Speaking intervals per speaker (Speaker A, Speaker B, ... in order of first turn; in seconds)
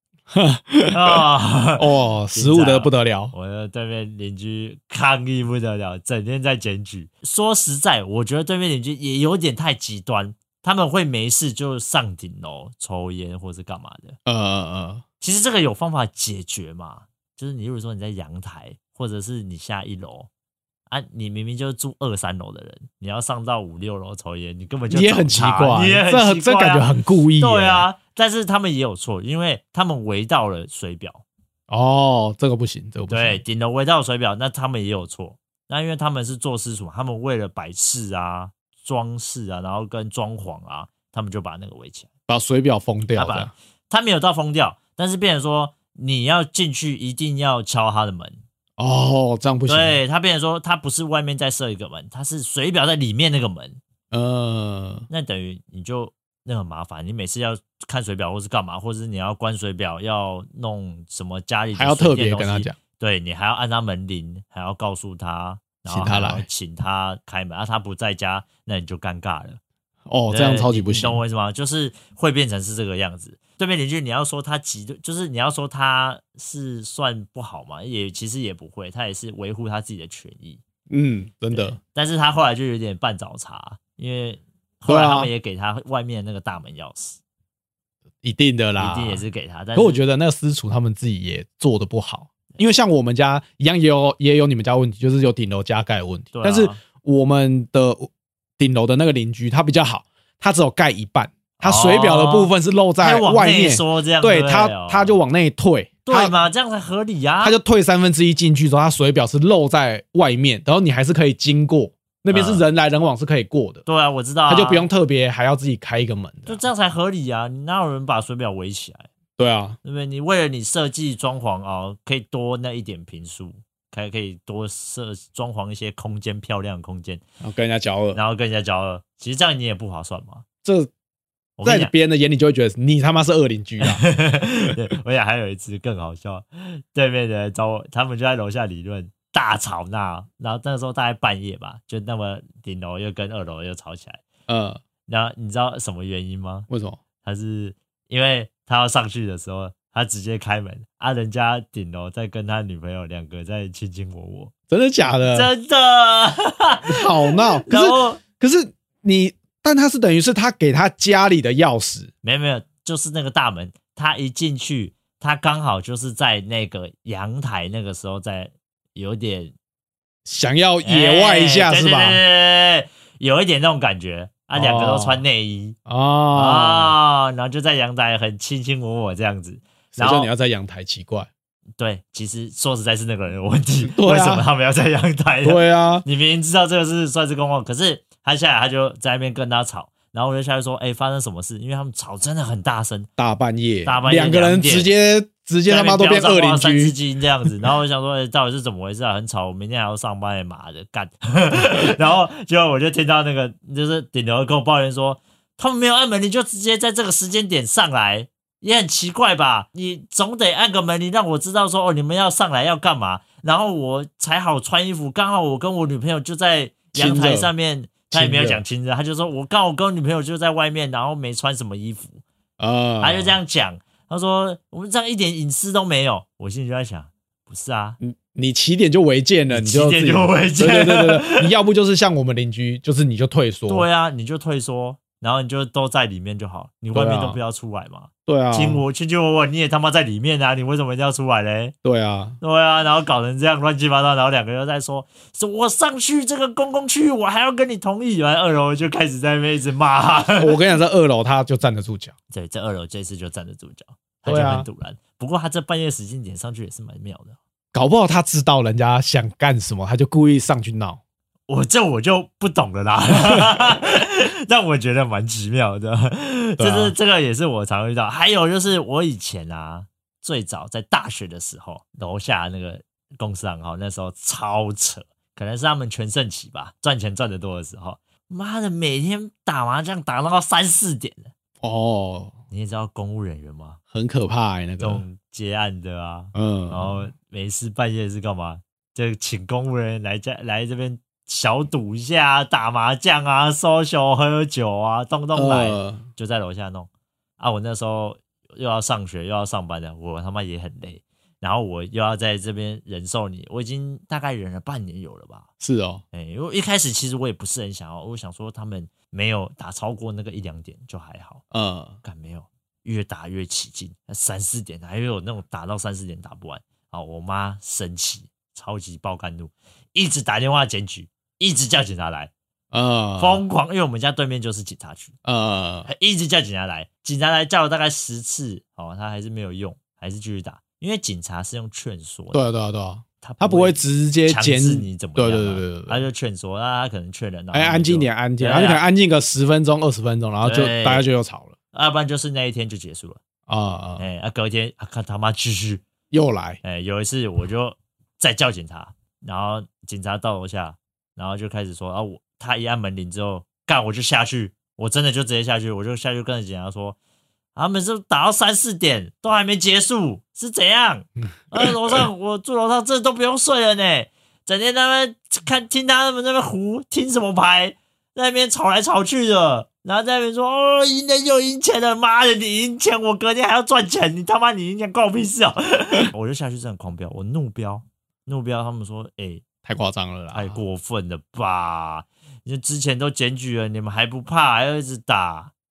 Speaker A: 0.3-1.2, 1.8-3.3, 14.3-15.0, 24.9-27.9, 31.7-33.4, 42.3-43.5, 48.8-50.0, 54.1-55.1, 61.7-62.7, 65.9-66.5, 70.1-71.2, 80.9-81.8, 84.9-85.3, 88.2-89.2, 89.8-106.3, 107.4-113.8, 114.5-116.6, 119.4-119.8, 127.4-128.2, 130.6-130.9, 131.6-134.0, 144.5-144.8, 146.7-147.0, 154.7-155.5, 156.9-162.1, 170.2-172.2, 174.6-175.2, 175.9-176.9, 179.9-181.3, 183.8-184.5, 185.4-186.1, 193.2-197.5, 216.9-217.5, 218.1-218.6, 222.6-223.3, 228.0-233.9, 236.9-237.4, 238.3-238.8, 241.8-242.4, 250.4-252.1, 254.2-254.7, 257.7-261.0, 263.3-263.6, 266.6-266.9, 281.6-282.3, 283.9-285.0, 286.3-287.1, 295.3-296.0, 305.6-306.0, 311.5-311.9, 322.7-323.4, 325.2-325.9, 332.3-336.0, 337.5-341.5, 343.5-344.1, 346.1-346.6, 361.6-362.1, 379.6-380.6
Speaker B: 0.9-14.2, 15.2-20.3, 20.9-31.2, 33.1-42.1, 43.1-48.4, 49.7-53.8, 55.1-69.6, 70.3-80.6, 81.5-87.2, 88.8-90.0, 96.3-96.8, 101.6-105.2, 106.1-107.6, 112.3-112.7, 113.9-114.9, 116.5-119.1, 119.8-127.2, 128.1-130.4, 131.6-131.9, 133.8-144.2, 145.1-146.7, 147.2-154.5, 155.0-158.2, 162.2-169.5, 170.8-175.8, 176.3-180.3, 181.8-193.1, 193.8-194.9, 195.7-222.2, 223.0-228.0, 229.5-231.5, 233.7-241.7, 242.4-250.6, 252.3-257.4, 261.5-281.3, 282.5-283.8, 284.8-305.5, 306.1-311.4, 312.0-322.3, 323.2-325.1, 325.9-332.4, 333.2-338.8, 340.4-341.1, 341.7-343.2, 344.0-345.8, 346.6-357.0, 357.6-379.4, 380.3-385.5